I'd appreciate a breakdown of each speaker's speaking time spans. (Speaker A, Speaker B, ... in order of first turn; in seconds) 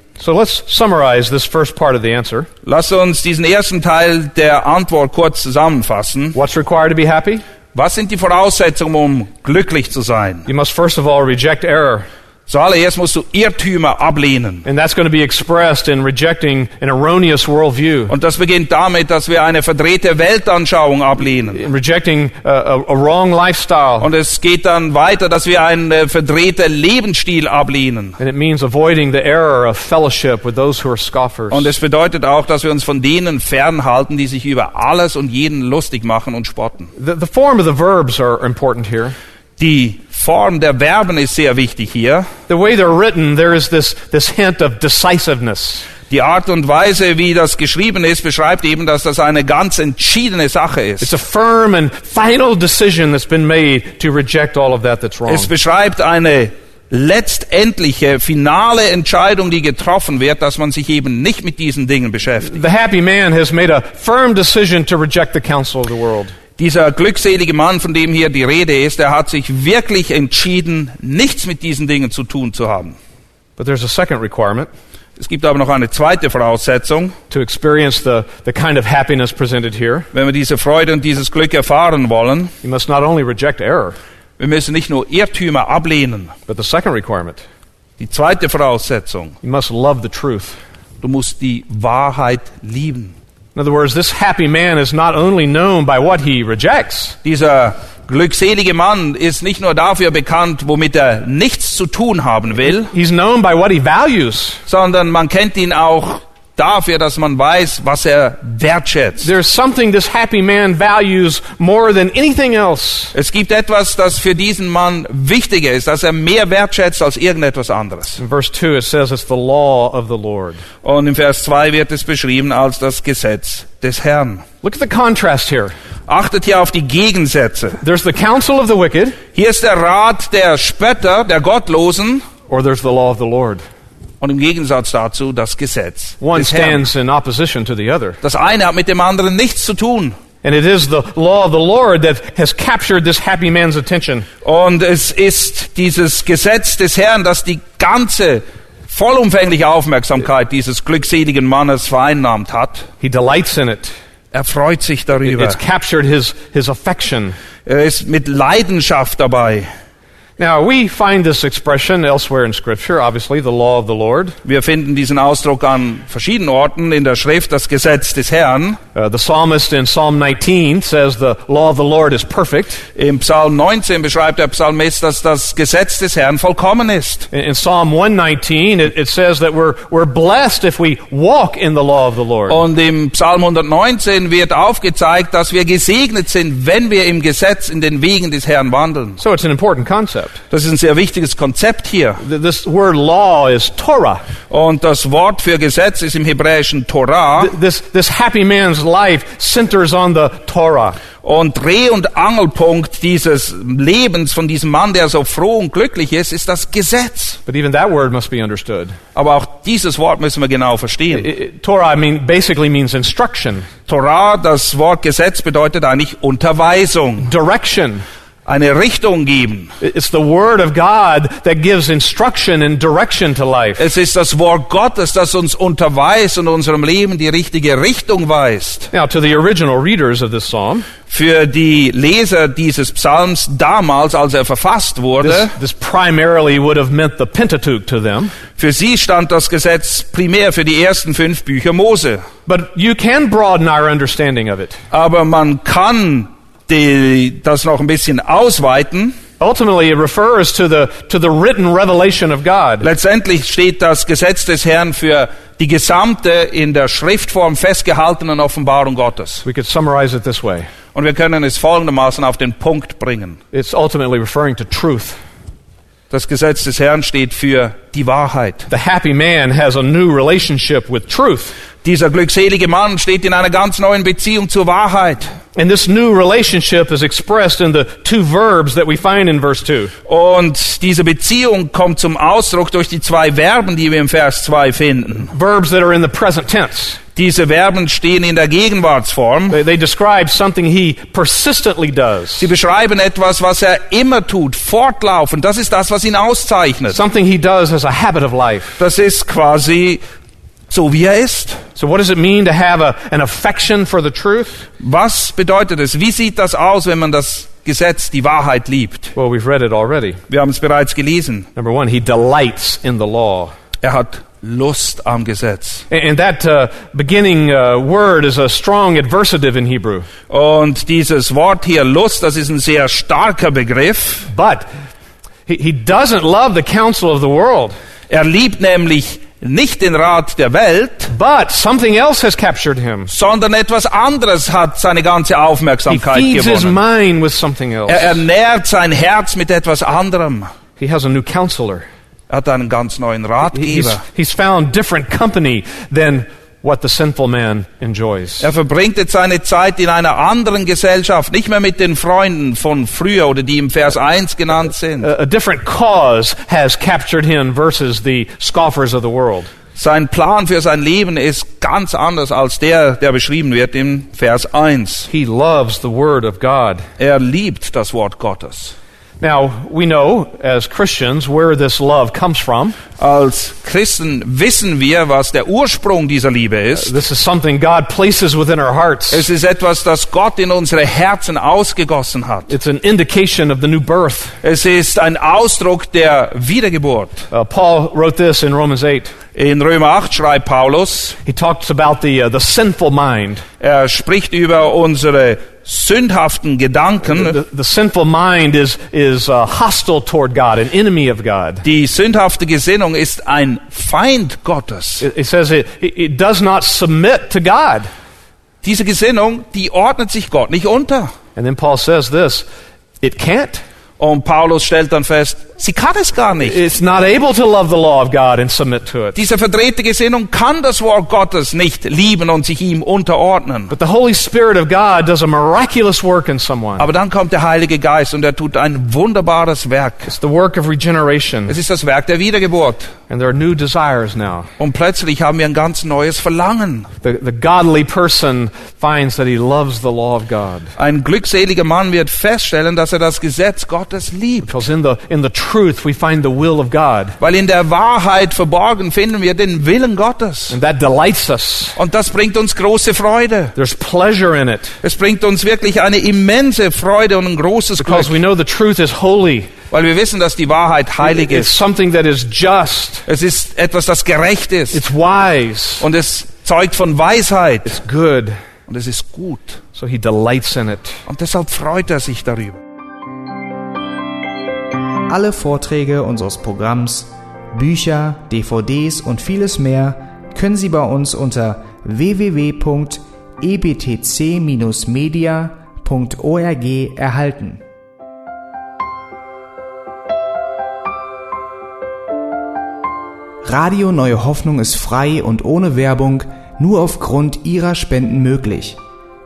Speaker A: 0.2-2.5, 6.3-7.4, 10.5-12.1, 14.6-18.1, 21.5-24.1, 28.2-31.7, 37.0-39.1, 42.5-45.9, 51.0-55.5, 62.5-66.3, 73.6-74.7, 77.3-80.1, 82.6-84.0, 86.5-87.4, 89.4-90.6, 93.5-97.2, 102.9-104.6, 109.2-113.1, 118.2-120.6, 124.6-125.7, 127.8-129.2, 132.5-133.6, 136.2-138.2, 140.4-144.3, 153.0-153.9, 155.2-157.3, 160.4-164.4, 168.9-172.8, 177.3-182.6, 189.2-190.4, 192.2-194.2, 197.4-201.0, 207.4-209.0, 211.1-213.7, 217.2-218.0, 219.8-223.8, 228.9-230.8, 235.2-238.3, 242.4-244.8, 249.4-252.9, 259.4-260.7, 263.5-265.2, 268.7-271.6, 275.5-279.9, 285.3-287.0, 289.5-292.5, 296.9-298.8, 301.8-304.6, 309.1-310.2, 311.6-313.5, 315.9-320.1, 324.3-324.7, 325.5-327.7, 331.1-333.1, 335.9-338.2, 340.8-341.9, 343.5-348.5, 355.0-359.5, 365.1-366.8, 369.2-372.8, 376.7-379.3, 382.5-384.4, 387.3-389.1, 391.2-393.4, 397.0-401.6, 405.0-407.9, 411.4-412.4, 413.0-413.6, 416.4-419.2, 423.7-426.9, 430.1-431.6, 433.1-434.5, 437.0-440.7, 444.4-447.2, 450.5-451.8, 453.6-454.7, 457.8-459.5, 461.0-463.1, 464.7-465.9, 467.6-468.4, 469.7-471.0
Speaker B: 2.6-6.4, 7.7-10.5, 12.5-14.7, 18.1-21.6, 24.0-28.2, 31.5-36.9, 39.6-42.3, 46.1-51.1, 55.3-62.6, 66.6-73.0, 75.2-77.2, 80.1-82.5, 84.4-86.3, 88.0-89.3, 91.0-93.1, 97.2-102.9, 104.7-109.3, 113.1-118.2, 120.8-124.4, 126.1-127.8, 129.3-132.3, 134.2-136.8, 138.2-140.2, 144.4-152.9, 154.3-155.6, 157.7-159.7, 164.4-168.8, 172.9-177.3, 182.5-189.2, 190.5-192.2, 194.5-197.5, 201.2-207.4, 209.1-211.3, 213.9-217.3, 218.4-219.7, 223.8-228.9, 231.1-235.5, 238.6-242.2, 244.9-249.2, 252.8-259.4, 260.9-263.4, 266.1-268.7, 271.8-275.3, 280.1-285.3, 287.1-289.6, 292.4-297.0, 298.8-300.0, 300.7-301.6, 304.8-309.1, 310.3-311.5, 313.8-315.9, 320.3-324.3, 328.1-331.1, 333.1-336.8, 337.9-340.5, 342.3-344.0, 348.4-355.1, 359.7-365.1, 367.0-368.8, 373.0-376.9, 379.1-382.5, 384.4-387.2, 389.3-391.2, 393.6-397.4, 401.6-405.1, 408.6-411.1, 414.0-416.6, 419.1-423.7, 426.8-430.1, 431.5-432.9, 434.6-436.9, 440.8-444.6, 447.2-450.6, 451.8-453.5, 454.8-458.2, 459.7-461.6, 463.1-464.8, 465.8-467.8, 468.7-469.6, 471.1-472.6
Speaker C: 475.1-487.6, 493.4-498.8